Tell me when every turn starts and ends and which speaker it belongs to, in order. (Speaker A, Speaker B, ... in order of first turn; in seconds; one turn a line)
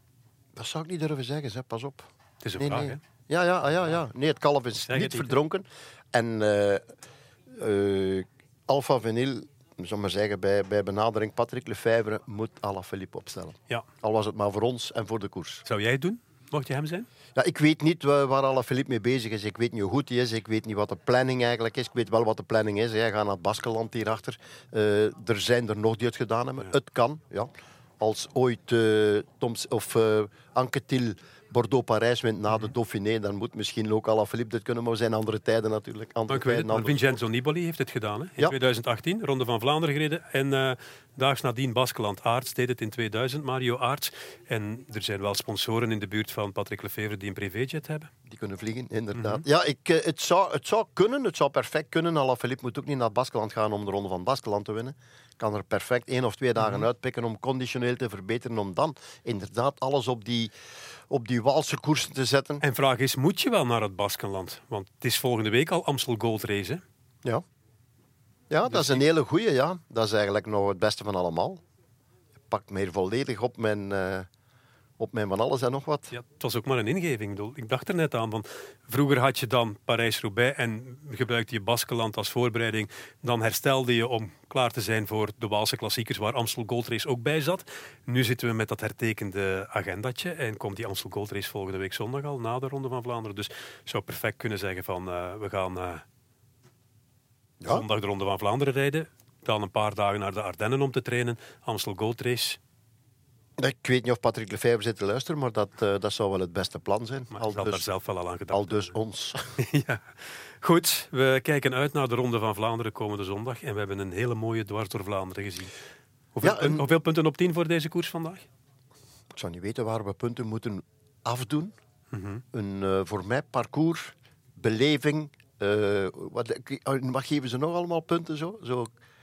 Speaker A: 0.6-6.8
Speaker B: 2.4-3.0
Speaker B: 4.8-5.4
Speaker A: 7.6-15.7
Speaker B: 15.7-17.1
Speaker A: 17.4-37.0
Speaker B: 36.3-48.1
Speaker A: 48.3-60.5
Speaker B: 49.1-49.4
Speaker B: 56.6-56.9
Speaker A: 61.1-62.6
Speaker B: 62.6-66.8
Speaker A: 68.5-71.6
Speaker B: 68.7-69.0
Speaker A: 72.5-74.3
Speaker A: 75.0-76.1
Speaker B: 76.1-96.0
Speaker B: 97.7-102.6
Speaker A: 103.6-107.9
Speaker B: 107.3-109.0
Speaker A: 108.5-109.5
Speaker B: 109.6-115.7
Speaker B: 116.3-118.5
Speaker A: 116.4-116.8
Speaker A: 119.3-121.7
Speaker B: 122.1-122.4
Speaker A: 122.5-128.9